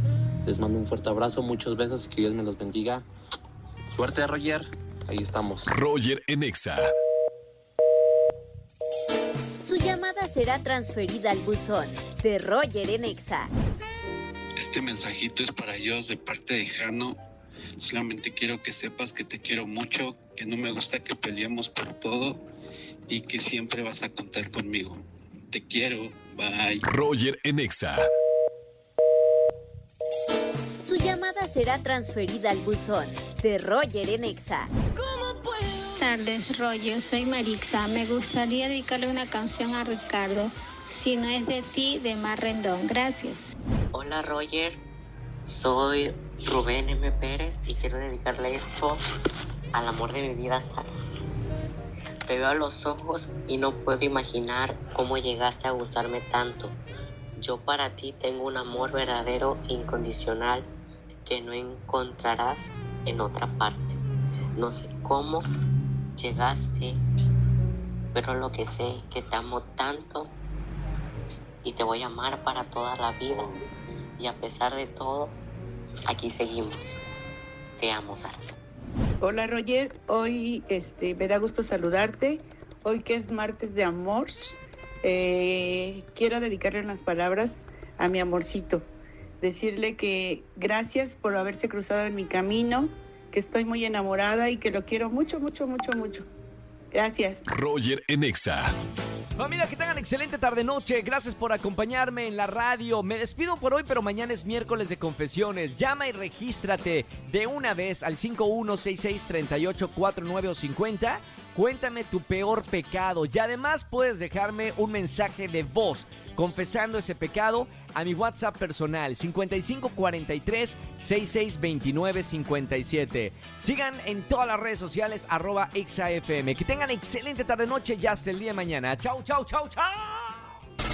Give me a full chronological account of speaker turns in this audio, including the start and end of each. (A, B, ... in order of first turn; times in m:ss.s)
0:00.4-0:03.0 A
0:03.9-0:05.7 A
0:05.7-0:06.8 B
0:09.6-0:13.5 C
0:14.6-0:17.2 D
0:17.8-0:22.4 D
0:23.1-0:26.8 D
0:26.9-0:28.0 B
0:30.8-0:34.7 C
0:36.0-0:43.5 E
0:43.9-0:44.8 F
0:45.5-0:49.0 F
0:49.7-0:50.9 F
0:52.3-0:56.8 F
0:57.4-1:00.6 F
1:01.2-1:04.0 F
1:04.6-1:05.4 F
1:06.2-1:07.0 F
1:08.1-1:10.3 F
1:11.6-1:13.6 F
1:14.2-1:15.4 F
1:16.1-1:17.0 F
1:17.8-1:18.4 F
1:19.2-1:28.9 G
1:29.4-1:36.2 G
1:36.9-1:37.5 G
1:37.5-1:38.7 B
1:39.4-2:10.5 H